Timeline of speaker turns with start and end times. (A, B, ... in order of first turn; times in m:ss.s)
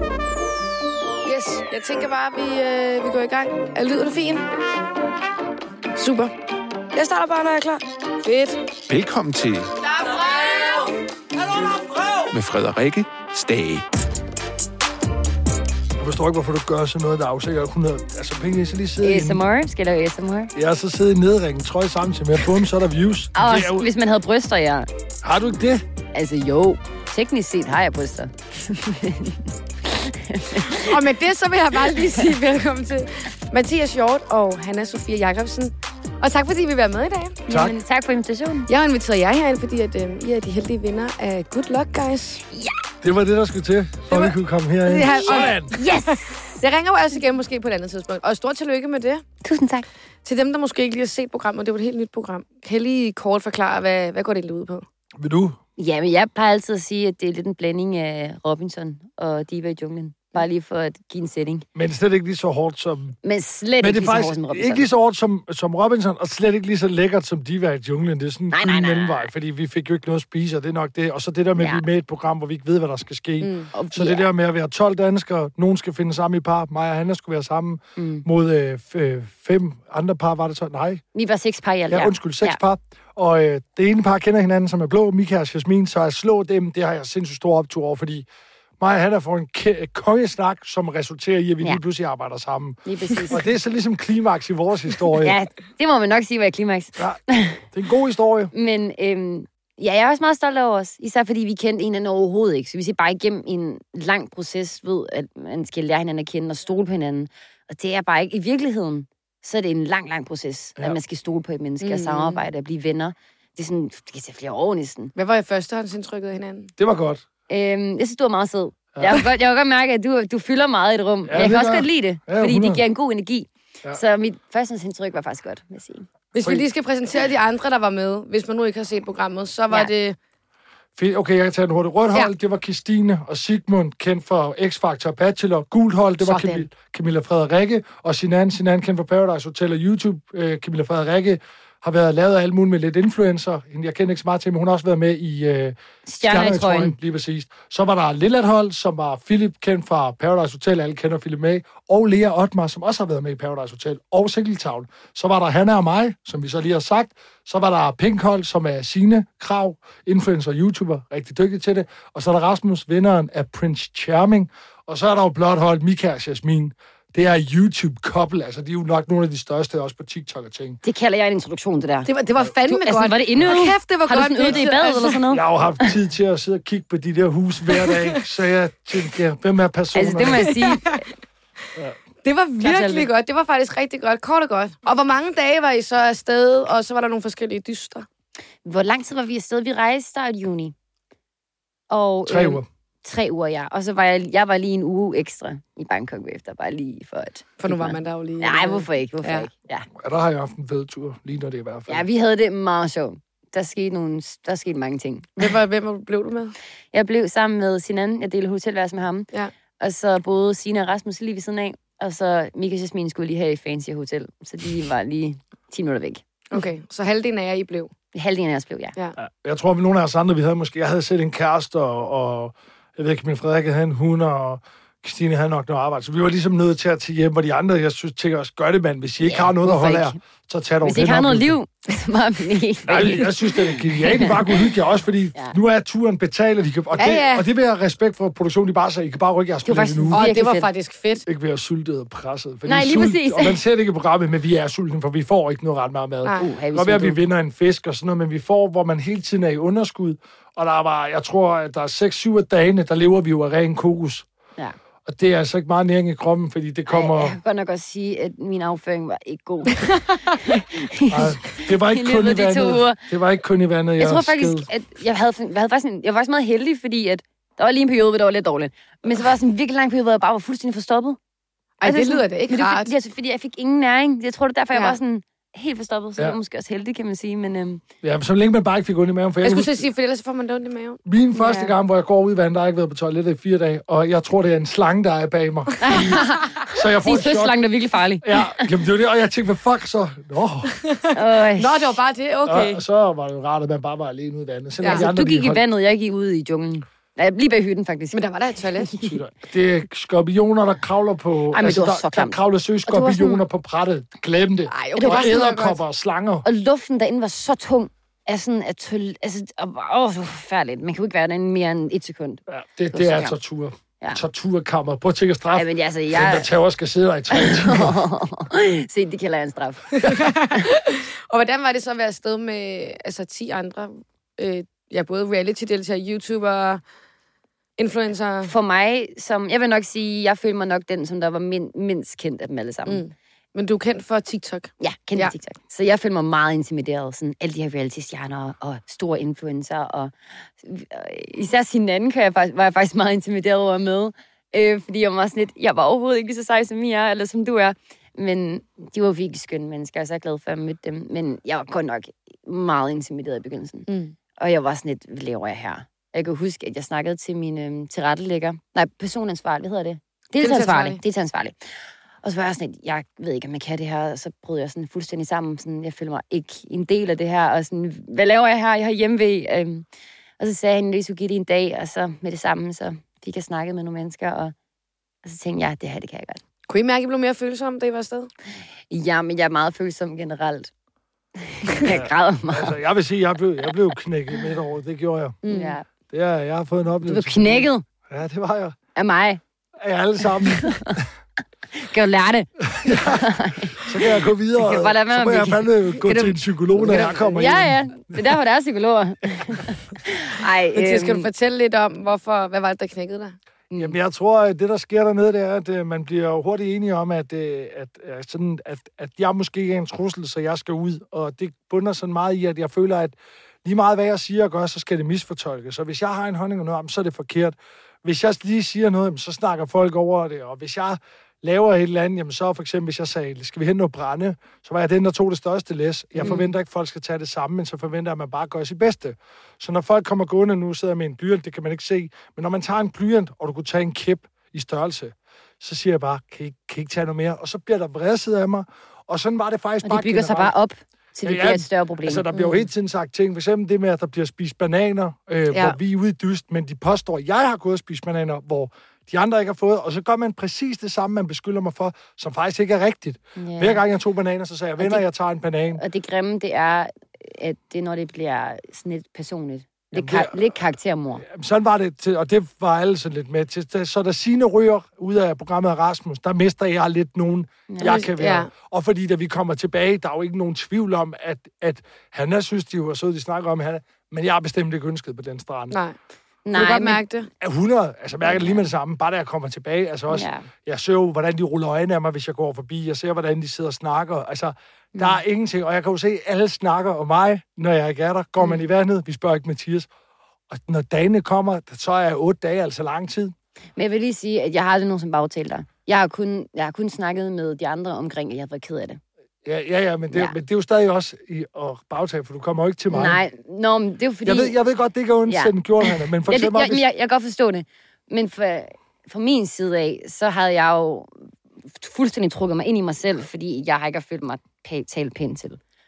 0:01.2-0:04.4 A
0:06.0-0:06.3 A
0:06.9-0:08.6 A
0:08.9-0:09.7 B
0:10.0-0:10.9 A
0:11.6-0:12.3 A
0:12.3-0:13.8 B
0:16.0-0:19.4 C
0:19.0-0:20.5 D
0:20.5-0:23.9 C
0:23.3-0:24.9 D
0:25.2-0:25.8 C
0:26.1-0:31.0 D
0:30.8-0:37.4 A
0:31.9-0:32.3 D
0:37.5-0:37.8 C
0:37.5-0:38.7 D
0:38.7-0:42.4 A
0:43.0-0:45.7 C
0:44.1-0:49.2 A
0:45.7-0:46.6 D
0:49.4-0:49.9 D
0:50.2-0:54.8 A
0:55.2-0:55.6 C
0:55.8-1:01.6 D
1:01.7-1:03.2 C
1:03.2-1:04.8 D
1:03.8-1:21.0 C
1:08.5-1:09.3 D
1:11.6-1:11.8 D
1:13.4-1:13.7 A
1:13.7-1:14.2 D
1:18.0-1:18.2 D
1:21.2-1:22.6 D
1:21.9-1:28.3 C
1:28.8-1:35.4 C
1:32.9-1:33.5 D
1:35.2-1:37.6 D
1:37.0-1:38.5 C
1:38.5-1:55.1 D
1:51.8-1:52.4 A
1:55.2-1:56.7 A
1:56.8-1:57.2 C
1:57.5-2:06.0 D
1:59.0-1:59.2 C
2:01.2-2:02.8 C
2:06.3-2:10.2 A
2:11.0-2:50.8 C
2:16.2-2:16.7 A
2:26.0-2:26.9 D
2:50.8-2:52.1 D
2:52.1-2:55.2 A
2:52.6-2:55.9 D
2:55.3-3:00.5 C
2:57.8-2:58.2 A
2:59.9-3:01.1 D
3:00.4-3:01.0 A
3:02.2-3:08.0 A
3:02.6-3:03.1 D
3:08.6-3:10.7 D
3:11.9-3:19.9 D
3:12.2-3:12.6 C
3:17.6-3:19.5 A
3:20.0-3:22.0 C
3:21.9-3:25.4 D
3:25.4-3:26.5 A
3:26.9-3:36.2 D
3:36.5-3:37.9 A
3:38.1-3:38.9 D
3:39.2-3:51.6 C
3:49.2-3:50.2 D
3:50.8-3:54.7 D
3:52.9-4:00.3 C
3:57.0-3:57.4 A
3:59.6-4:00.7 D
4:00.1-4:01.2 A
4:01.2-4:14.2 C
4:02.7-4:03.6 D
4:06.3-4:07.2 D
4:15.0-4:17.4 C
4:16.9-4:23.0 D
4:21.1-4:24.7 C
4:24.0-4:31.2 D
4:31.8-4:32.9 A
4:31.8-4:37.8 D
4:38.0-4:39.9 C
4:39.4-4:41.7 A
4:41.1-4:47.6 C
4:45.8-4:48.7 D
4:48.2-4:50.8 C
4:50.8-4:52.8 A
4:51.1-4:52.0 D
4:52.5-4:55.6 C
4:54.8-4:55.1 A
4:54.9-4:58.2 D
4:58.1-4:59.0 A
4:58.8-4:59.2 D
4:59.0-5:06.4 C
5:01.5-5:02.4 D
5:02.9-5:03.3 A
5:04.7-5:05.8 A
5:04.9-5:05.4 D
5:06.4-5:13.4 D
5:12.5-5:18.0 C
5:15.5-5:16.5 D
5:17.3-5:20.0 D
5:20.0-5:26.8 A
5:27.8-5:28.5 A
5:28.4-5:33.0 D
5:32.9-5:35.4 A
5:34.8-6:09.9 D
5:53.9-5:54.2 A
6:00.4-6:01.0 A
6:10.4-6:14.5 D
6:15.2-6:16.4 D
6:16.7-6:18.3 A
6:18.9-6:20.7 D
6:21.4-6:22.8 D
6:21.9-6:25.4 C
6:25.4-6:25.8 A
6:25.5-6:25.8 D
6:26.1-6:28.8 C
6:27.0-6:27.8 D
6:28.9-6:29.4 D
6:29.8-6:31.1 C
6:30.5-6:31.0 D
6:31.7-6:34.0 D
6:32.6-6:38.2 C
6:34.6-6:36.1 D
6:36.8-6:41.3 D
6:40.7-6:43.4 A
6:43.7-6:44.0 D
6:43.8-7:20.5 C
7:06.2-7:06.5 D
7:19.8-7:22.3 D
7:21.2-7:35.8 C
7:22.3-7:22.6 A
7:25.5-7:25.8 A
7:33.4-7:33.8 D
7:35.8-7:41.2 D
7:39.9-7:40.4 C
7:41.2-7:55.8 C
7:47.7-7:48.0 D
7:47.8-7:48.5 A
7:55.7-7:56.0 A
7:56.4-7:57.0 D
7:56.5-7:57.3 A
7:57.4-8:09.9 C
7:58.2-7:58.6 D
8:00.1-8:00.5 D
8:10.5-8:13.3 C
8:13.8-8:19.0 D
8:19.4-8:23.2 C
8:20.1-8:20.4 D
8:22.9-8:24.6 D
8:24.2-8:26.8 C
8:25.3-8:31.1 D
8:31.7-8:35.6 D